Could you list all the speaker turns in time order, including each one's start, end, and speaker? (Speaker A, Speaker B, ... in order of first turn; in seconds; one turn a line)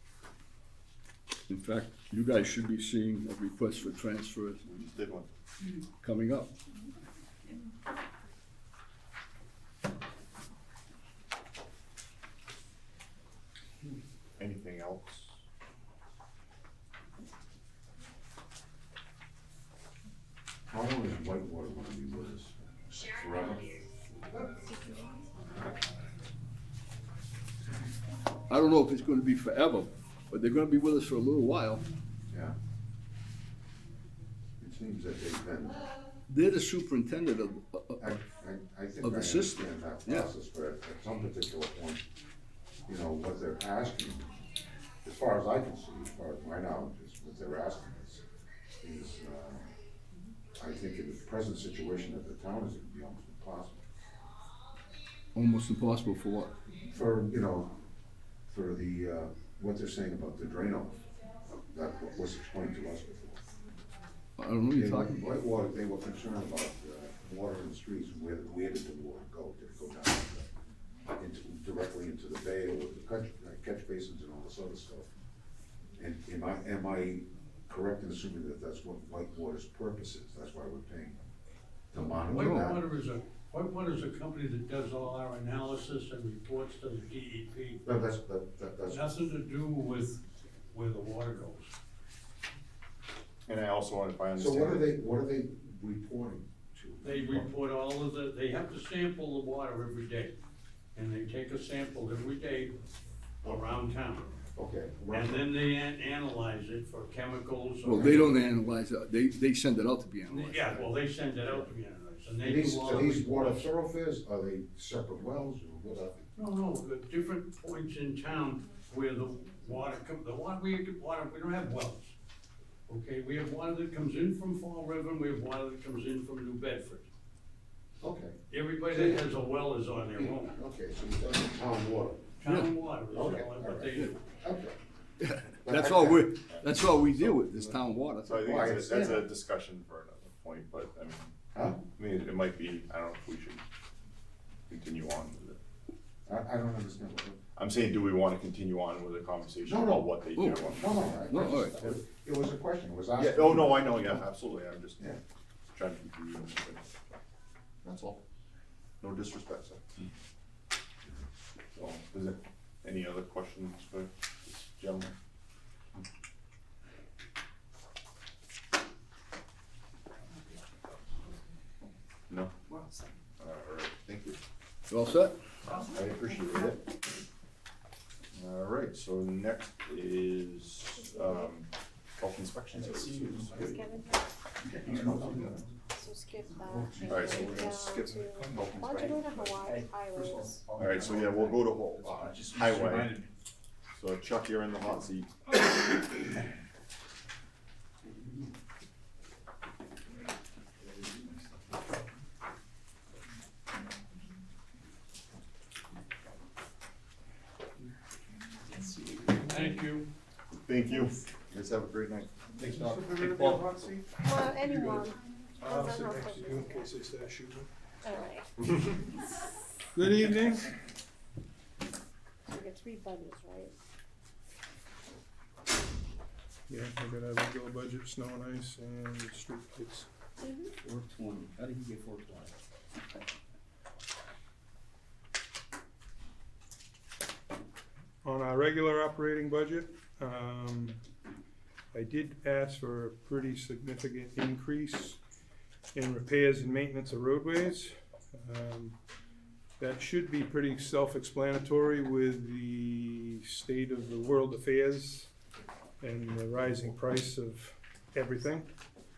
Speaker A: 1.5-4.7
Speaker B: 4.8-5.3
Speaker A: 6.0-6.5
Speaker B: 14.4-15.3
Speaker C: 20.7-23.8
Speaker A: 28.5-31.8
Speaker C: 32.3-32.5
Speaker C: 34.6-35.9
Speaker A: 36.3-38.1
Speaker C: 38.0-42.0
Speaker A: 39.0-40.3
Speaker C: 42.9-44.5
Speaker C: 45.0-48.2
Speaker C: 48.8-49.7
Speaker C: 50.5-53.8
Speaker A: 55.3-56.5
Speaker C: 56.9-57.7
Speaker C: 58.5-61.0
Speaker C: 61.7-63.4
Speaker A: 64.4-65.2
Speaker C: 64.7-70.5
Speaker C: 71.1-75.1
Speaker C: 76.0-81.2
Speaker C: 81.9-82.8
Speaker D: 82.3-87.8
Speaker A: 82.3-82.7
Speaker C: 87.8-89.2
Speaker D: 88.9-91.7
Speaker B: 93.5-94.9
Speaker C: 94.3-97.5
Speaker D: 97.0-100.3
Speaker D: 100.9-102.8
Speaker D: 103.4-104.3
Speaker C: 104.5-105.5
Speaker D: 105.1-108.4
Speaker A: 107.8-110.8
Speaker C: 107.9-108.3
Speaker D: 110.3-113.6
Speaker C: 111.4-111.7
Speaker C: 112.4-116.2
Speaker D: 116.3-122.1
Speaker D: 122.9-127.1
Speaker C: 128.0-129.3
Speaker D: 128.5-130.6
Speaker C: 130.1-132.2
Speaker D: 132.4-134.2
Speaker A: 132.4-132.7
Speaker C: 133.1-134.8
Speaker A: 135.2-138.7
Speaker C: 135.6-136.3
Speaker B: 136.3-137.2
Speaker C: 137.4-137.8
Speaker B: 138.2-141.3
Speaker C: 138.4-139.3
Speaker C: 141.5-141.8
Speaker B: 141.9-143.6
Speaker B: 144.7-145.6
Speaker C: 146.2-147.4
Speaker B: 147.6-151.2
Speaker C: 149.7-150.1
Speaker A: 150.4-150.7
Speaker C: 150.6-154.2
Speaker A: 151.2-151.8
Speaker B: 153.2-155.2
Speaker B: 155.7-156.8
Speaker B: 157.8-158.2
Speaker B: 159.0-160.1
Speaker B: 161.7-165.2
Speaker B: 173.4-174.4
Speaker A: 174.9-175.4
Speaker B: 175.8-176.8
Speaker B: 178.3-183.8
Speaker E: 182.7-183.8
Speaker F: 183.6-184.3
Speaker E: 184.6-185.7
Speaker F: 185.9-190.7
Speaker E: 186.6-193.2
Speaker B: 187.0-189.6
Speaker B: 190.7-193.2
Speaker B: 193.9-195.3
Speaker E: 208.8-209.4
Speaker D: 209.5-210.1
Speaker B: 210.6-212.6
Speaker G: 212.6-217.7
Speaker A: 212.8-213.6
Speaker F: 214.2-216.8
Speaker F: 218.0-218.4
Speaker G: 219.9-220.7
Speaker F: 222.5-223.7
Speaker G: 226.7-230.1
Speaker F: 230.4-230.7
Speaker E: 230.8-232.5
Speaker G: 238.2-241.0
Speaker G: 241.9-245.2
Speaker G: 245.9-249.0
Speaker G: 249.8-255.3
Speaker G: 256.0-258.7